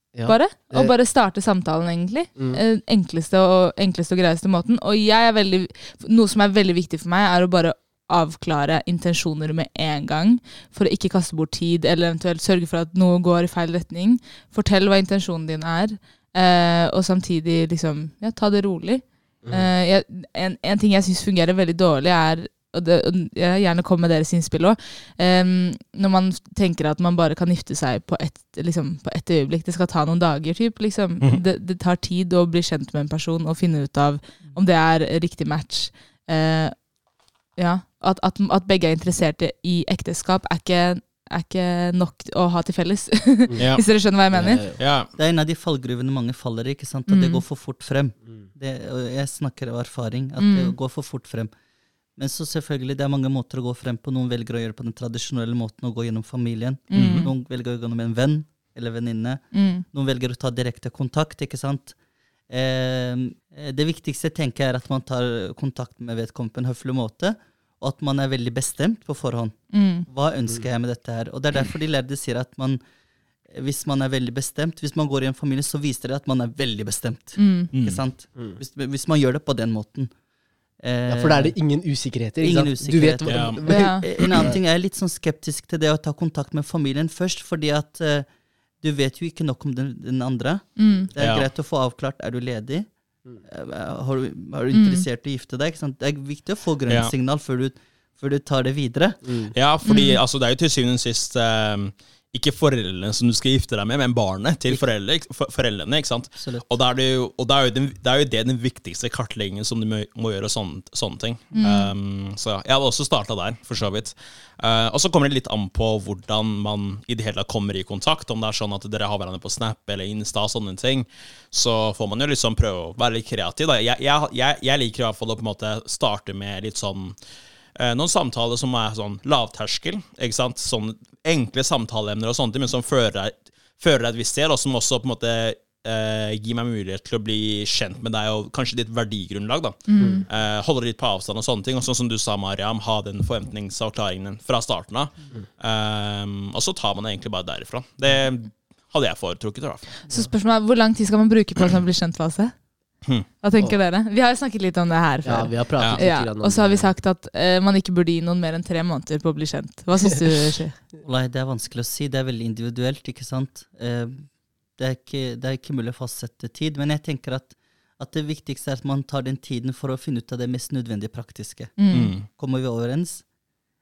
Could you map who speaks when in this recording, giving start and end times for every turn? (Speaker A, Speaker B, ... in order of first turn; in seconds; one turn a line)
Speaker A: 0.1-0.9
Speaker B: 0.2-36.8
Speaker A: 19.4-19.7
Speaker B: 37.5-44.6
Speaker A: 43.5-43.8
Speaker C: 43.6-43.8
Speaker A: 44.3-44.8
Speaker C: 44.8-45.1
Speaker D: 45.2-51.5
Speaker B: 47.1-47.4
Speaker B: 50.4-50.7
Speaker D: 52.1-62.0
Speaker B: 56.9-57.3
Speaker C: 56.9-57.3
Speaker B: 59.5-59.9
Speaker D: 62.5-72.8
Speaker B: 69.7-70.1
Speaker D: 73.5-80.1
Speaker B: 77.3-77.7
Speaker C: 77.7-78.0
Speaker D: 80.8-81.6
Speaker A: 81.1-84.6
Speaker D: 82.4-88.3
Speaker C: 83.2-84.2
Speaker B: 83.7-84.0
Speaker D: 88.8-99.3
Speaker B: 90.8-91.1
Speaker C: 91.2-91.5
Speaker B: 94.7-95.0
Speaker C: 96.9-97.1
Speaker A: 99.2-99.5
Speaker C: 99.5-127.2
Speaker B: 99.8-100.2
Speaker D: 106.3-106.6
Speaker B: 111.5-111.9
Speaker C: 127.8-149.9
Speaker B: 139.9-140.2
Speaker B: 150.1-152.5
Speaker B: 153.4-160.8
Speaker A: 155.2-156.9
Speaker D: 161.0-171.8
Speaker B: 171.8-172.1
Speaker C: 171.9-172.3
Speaker D: 172.3-173.3